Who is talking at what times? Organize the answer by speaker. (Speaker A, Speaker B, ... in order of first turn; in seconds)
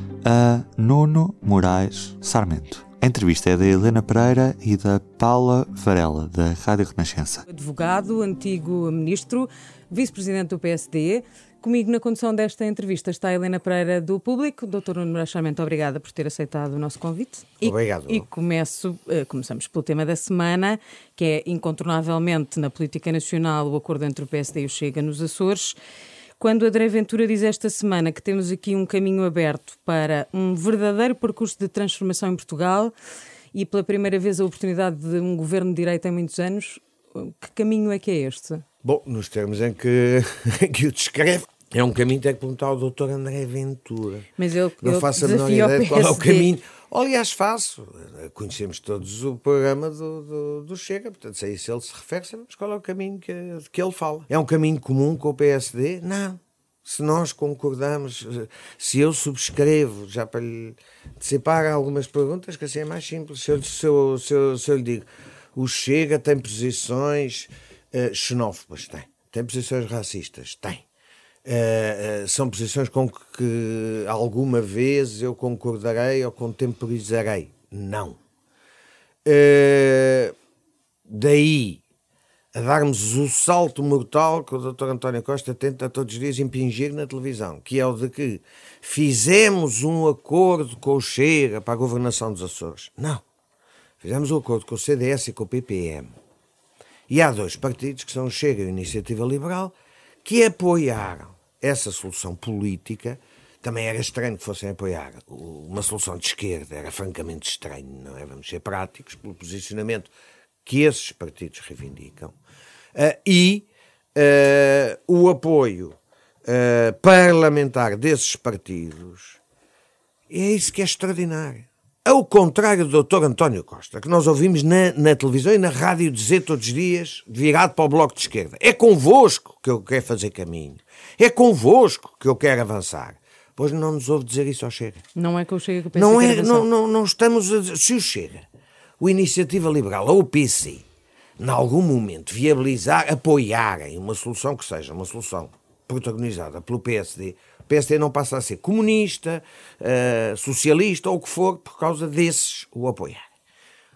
Speaker A: 0.2-7.4
Speaker B: 7.5-25.8, 26.4-32.9, 33.5-38.6, 44.4-46.5, 135.2-136.7
Speaker C: 17.6-18.3, 38.8-44.3, 44.8-70.8, 71.5-78.2, 79.2-80.3, 81.1-81.8, 82.5-93.2, 94.0-96.1, 97.1-110.1, 110.6-112.3, 113.0-119.4, 120.3-135.0, 135.9-138.5, 139.0-140.8, 141.4-153.2